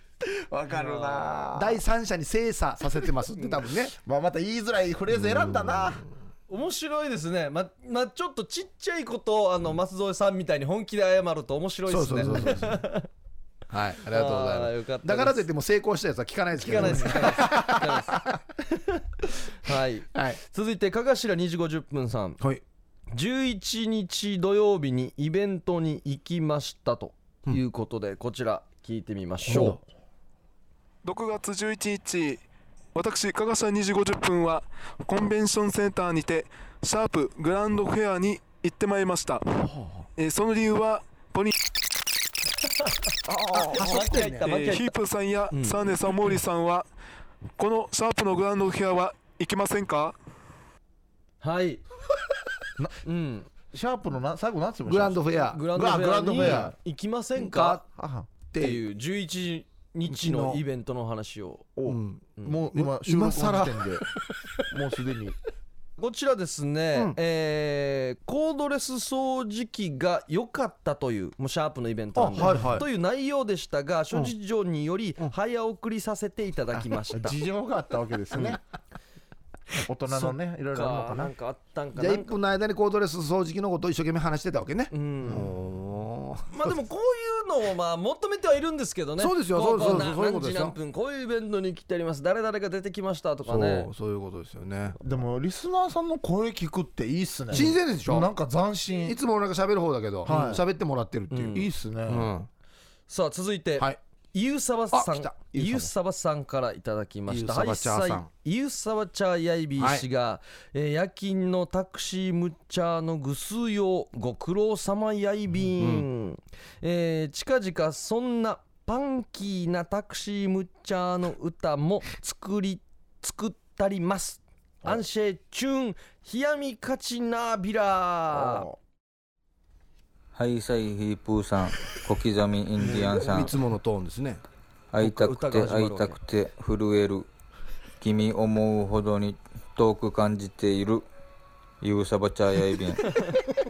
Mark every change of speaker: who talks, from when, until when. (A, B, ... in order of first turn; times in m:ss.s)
0:00.2-0:01.8 A
0:00.7-0:01.4 B
0:01.5-0:03.9 C
0:03.9-0:06.0 A
0:05.1-0:06.1 C
0:06.5-0:13.1 B
0:11.9-0:12.8 C
0:13.7-0:18.2 C
0:14.1-0:15.4 B
0:16.6-0:22.4 B
0:20.1-0:20.4 C
0:23.1-0:29.8 B
0:29.5-0:29.8 C
0:31.0-0:32.4 D
0:32.9-0:39.6 D
0:39.7-0:40.0 A
0:40.2-0:41.5 D
0:43.2-0:44.4 A
0:43.5-0:44.9 B
0:43.7-0:44.5 C
0:44.4-0:46.9 D
0:45.5-0:45.9 B
0:47.6-0:50.2 D
0:51.4-0:51.8 B
0:53.0-0:53.5 B
0:53.7-0:56.8 A
0:54.9-0:55.6 C
0:55.5-0:57.8 B
0:56.4-0:56.7 C
0:57.4-0:57.8 C
0:57.8-0:58.3 A
0:58.5-0:58.8 C
0:58.6-1:01.7 B
1:00.1-1:00.6 C
1:01.8-1:04.0 A
1:01.9-1:04.2 C
1:04.7-1:05.4 A
1:06.0-1:17.4 B
1:12.2-1:12.9 C
1:16.7-1:18.6 A
1:19.9-1:21.3 A
1:20.1-1:22.4 B
1:22.0-1:26.5 C
1:24.9-1:25.5 B
1:26.5-1:33.9 B
1:29.2-1:30.8 C
1:33.4-1:35.0 C
1:35.0-1:39.2 A
1:37.5-1:38.3 C
1:39.0-1:42.5 C
1:40.2-1:40.6 A
1:40.3-1:40.5 B
1:41.3-1:41.7 B
1:41.5-1:42.3 A
1:43.1-2:08.7 B
1:44.9-1:45.4 C
1:45.5-1:45.9 A
1:47.3-1:48.3 C
1:49.8-1:50.1 C
1:55.8-1:56.1 C
2:08.3-2:08.8 A
2:10.3-2:13.6 E
2:12.8-2:13.4 B
2:12.9-2:14.4 C
2:14.9-2:17.3 E
2:15.0-2:16.2 B
2:18.0-2:21.1 E
2:21.8-2:23.1 E